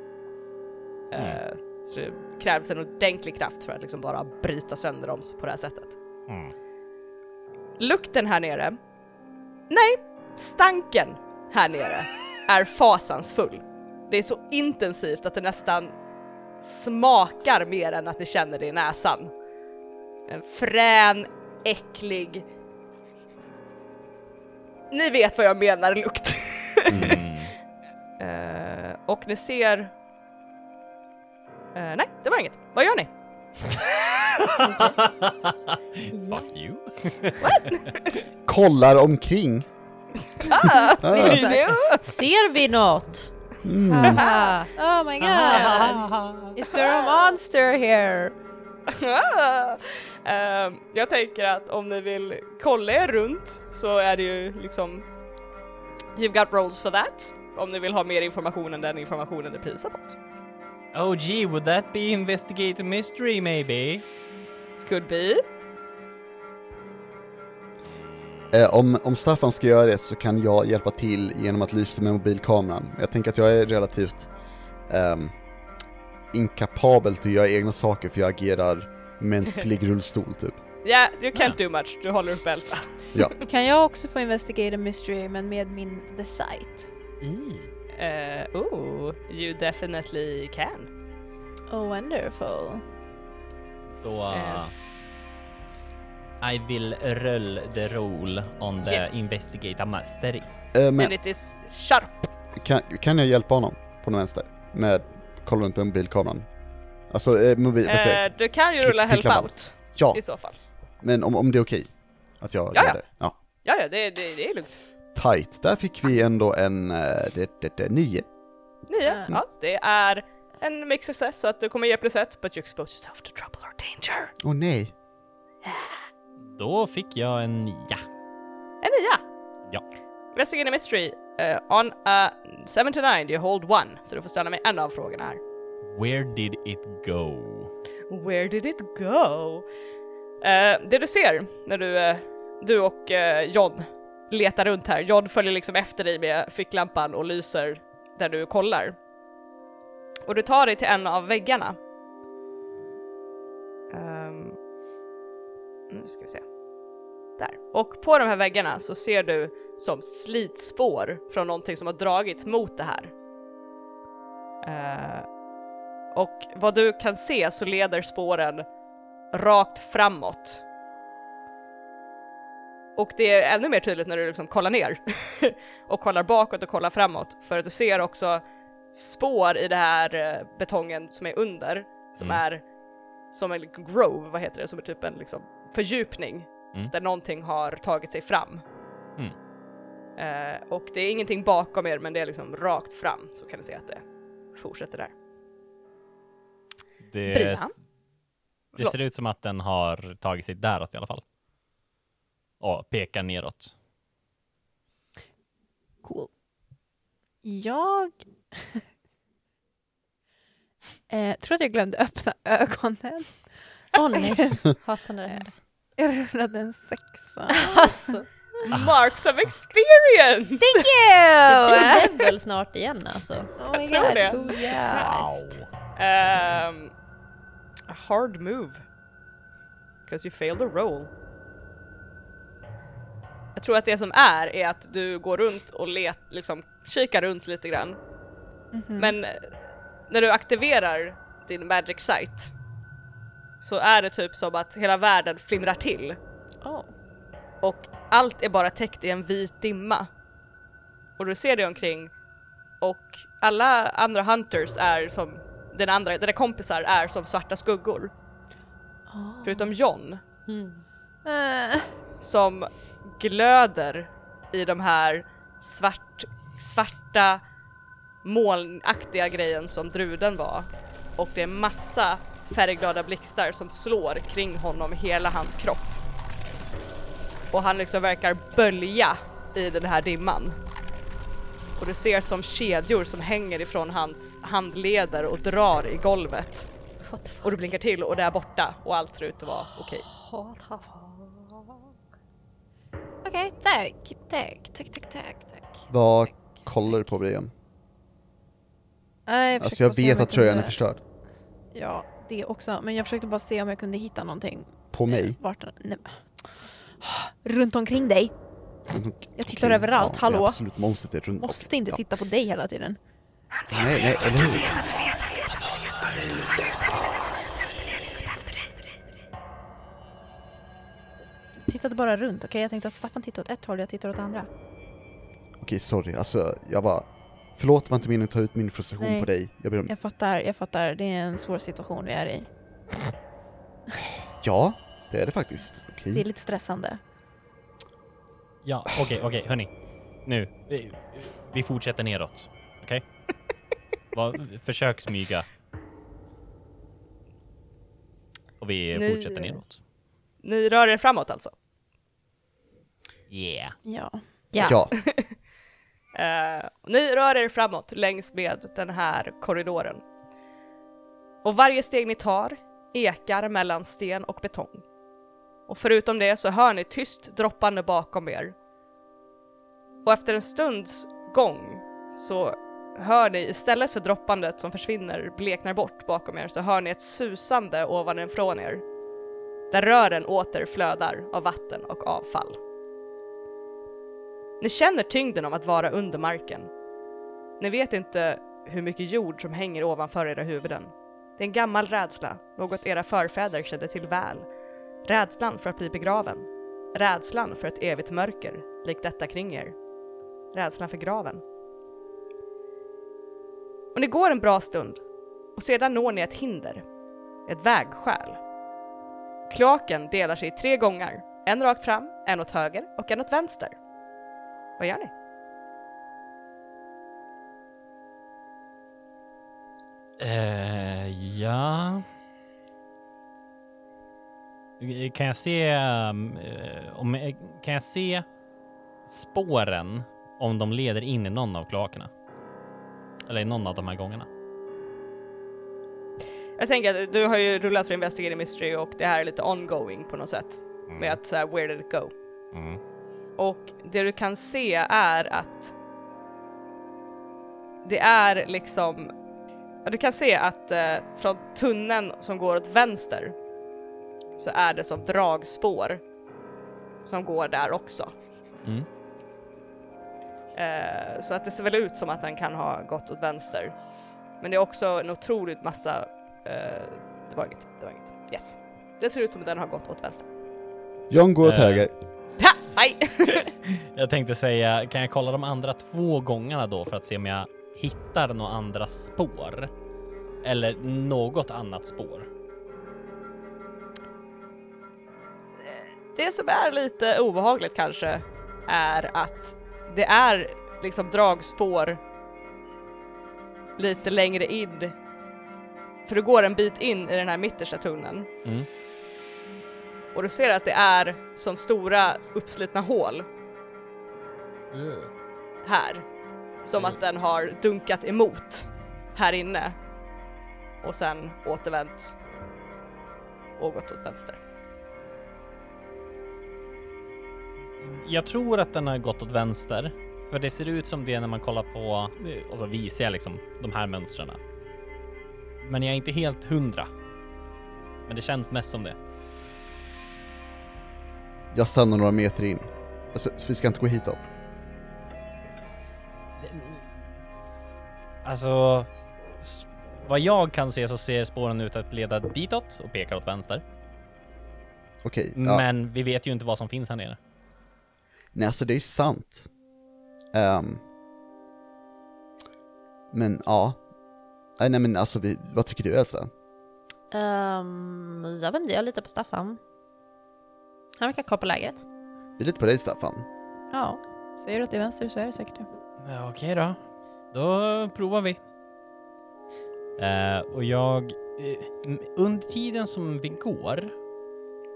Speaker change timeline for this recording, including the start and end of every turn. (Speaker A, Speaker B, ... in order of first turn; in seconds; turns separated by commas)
Speaker A: 1.1-6.0, Speaker B: 1.1-1.4, Speaker B: 6.3-6.5, Speaker A: 7.8-8.8, Speaker A: 9.7-15.9, Speaker A: 16.6-19.3, Speaker A: 20.3-22.4, Speaker A: 24.9-27.1, Speaker C: 26.9-27.2, Speaker B: 26.9-27.5, Speaker A: 28.2-29.9, Speaker A: 31.7-33.1, Speaker B: 34.4-37.9, Speaker A: 37.4-38.1, Speaker C: 38.5-39.7, Speaker A: 40.4-42.1, Speaker D: 40.7-42.0, Speaker C: 41.0-41.5, Speaker E: 42.0-43.3, Speaker C: 43.6-44.2, Speaker E: 43.9-44.7, Speaker A: 44.0-44.6, Speaker D: 44.7-48.3, Speaker B: 45.2-46.5, Speaker A: 46.6-47.4, Speaker A: 48.9-55.0, Speaker A: 56.1-60.2, Speaker B: 60.9-64.0, Speaker A: 64.8-65.4, Speaker C: 68.5-74.3, Speaker C: 74.9-75.3, Speaker C: 76.3-80.6, Speaker A: 80.8-83.3, Speaker D: 83.5-86.9, Speaker B: 87.2-87.7, Speaker A: 87.9-90.9, Speaker D: 91.7-92.8, Speaker B: 94.0-94.7, Speaker A: 94.3-94.6, Speaker B: 96.4-100.5, Speaker C: 100.7-101.1, Speaker A: 101.0-102.3, Speaker C: 102.5-106.5, Speaker C: 107.1-110.2, Speaker A: 107.8-110.5, Speaker C: 111.0-113.3, Speaker A: 112.7-113.0, Speaker A: 113.6-114.8, Speaker C: 115.1-118.3, Speaker A: 118.9-124.3, Speaker C: 124.4-124.9, Speaker A: 125.6-126.0, Speaker B: 126.5-128.0, Speaker A: 128.8-129.2, Speaker A: 130.3-135.4, Speaker B: 135.8-137.7, Speaker A: 138.1-139.7, Speaker A: 140.4-148.9, Speaker A: 150.2-151.8, Speaker A: 153.9-154.6, Speaker A: 155.9-156.4, Speaker A: 157.4-163.1, Speaker A: 164.6-165.2, Speaker A: 166.1-168.7, Speaker A: 169.3-170.6, Speaker A: 172.9-178.4, Speaker A: 178.9-182.6, Speaker A: 183.3-188.6, Speaker A: 190.2-194.0, Speaker A: 194.5-195.1, Speaker B: 197.1-197.7, Speaker A: 197.3-197.7, Speaker B: 198.8-201.2, Speaker B: 202.6-203.7, Speaker D: 206.0-206.3, Speaker D: 207.4-208.8, Speaker D: 211.1-215.4, Speaker E: 213.9-215.5, Speaker D: 216.0-218.1, Speaker E: 217.5-218.3, Speaker A: 218.7-220.9, Speaker B: 218.7-218.9, Speaker D: 220.6-222.2, Speaker E: 221.5-225.4, Speaker D: 223.6-225.1, Speaker A: 223.7-224.4, Speaker B: 224.6-225.7, Speaker A: 225.9-226.9, Speaker A: 227.9-228.8, Speaker A: 230.1-231.1, Speaker A: 233.6-238.0, Speaker D: 238.7-239.2, Speaker A: 239.0-239.5, Speaker A: 240.1-242.5, Speaker A: 243.6-246.2, Speaker D: 246.6-246.9, Speaker A: 247.6-250.1, Speaker A: 251.2-252.1, Speaker A: 252.8-258.1, Speaker D: 259.1-259.7, Speaker A: 259.4-260.2, Speaker E: 260.5-260.8, Speaker D: 261.2-261.9, Speaker A: 262.2-267.4, Speaker A: 268.2-276.0, Speaker A: 277.5-280.6, Speaker A: 281.8-286.7, Speaker E: 287.1-287.6, Speaker A: 287.4-290.1, Speaker E: 290.1-291.9, Speaker D: 293.2-295.9, Speaker C: 295.9-297.5, Speaker D: 299.2-300.7, Speaker C: 299.6-301.0, Speaker D: 301.7-306.1, Speaker C: 304.9-305.4, Speaker D: 307.0-308.3, Speaker C: 308.9-312.0, Speaker D: 309.4-310.6, Speaker D: 311.4-313.0, Speaker C: 313.7-314.9, Speaker D: 318.0-318.6, Speaker D: 321.6-324.5, Speaker C: 325.6-329.9, Speaker D: 329.0-329.3, Speaker D: 329.9-332.5, Speaker C: 334.4-336.2, Speaker D: 336.1-337.0, Speaker B: 338.6-339.7, Speaker B: 340.2-343.0, Speaker B: 344.1-345.5, Speaker B: 348.6-349.8, Speaker A: 348.9-349.6, Speaker A: 350.4-351.5, Speaker B: 353.3-353.8, Speaker D: 353.8-354.2, Speaker E: 354.5-354.8, Speaker C: 354.6-354.9, Speaker A: 354.9-355.3, Speaker A: 356.1-360.0, Speaker A: 361.4-364.8, Speaker A: 365.7-368.5, Speaker A: 370.0-378.8, Speaker A: 379.7-382.6, Speaker A: 384.6-386.7, Speaker A: 387.6-394.4, Speaker A: 395.1-399.7, Speaker A: 400.5-401.4, Speaker A: 403.9-405.0, Speaker A: 405.6-406.8, Speaker A: 407.5-408.4, Speaker A: 409.5-413.7, Speaker A: 414.8-415.1, Speaker B: 420.2-422.1, Speaker B: 424.8-428.2, Speaker B: 429.1-432.1, Speaker B: 433.3-434.3, Speaker A: 436.6-442.1, Speaker B: 440.9-441.2, Speaker B: 442.5-442.8, Speaker A: 443.4-445.7, Speaker A: 447.8-449.1, Speaker A: 449.8-453.3, Speaker A: 454.4-456.0, Speaker A: 457.0-458.1, Speaker A: 460.5-463.7, Speaker A: 464.4-470.2, Speaker C: 471.1-471.9, Speaker B: 471.4-471.9, Speaker A: 472.4-473.5, Speaker B: 473.7-479.7, Speaker B: 480.4-482.3, Speaker A: 485.6-492.0, Speaker A: 493.8-494.9, Speaker A: 496.1-498.3, Speaker A: 500.1-503.3, Speaker B: 504.7-505.1, Speaker A: 505.6-506.0, Speaker A: 506.6-509.7, Speaker A: 510.8-512.1, Speaker A: 513.6-514.4, Speaker B: 517.8-524.4, Speaker B: 525.6-526.9, Speaker B: 528.1-529.0, Speaker C: 531.5-534.3, Speaker B: 536.4-536.9, Speaker B: 538.2-538.9, Speaker B: 539.4-543.6, Speaker C: 545.0-545.6, Speaker B: 545.4-547.2, Speaker C: 548.3-549.5, Speaker C: 550.3-550.8, Speaker C: 553.1-553.8, Speaker C: 554.6-556.3, Speaker E: 557.1-559.6, Speaker E: 561.0-561.8, Speaker C: 562.4-563.3, Speaker D: 563.7-565.7, Speaker B: 566.0-566.8, Speaker B: 567.3-568.4, Speaker B: 570.0-573.9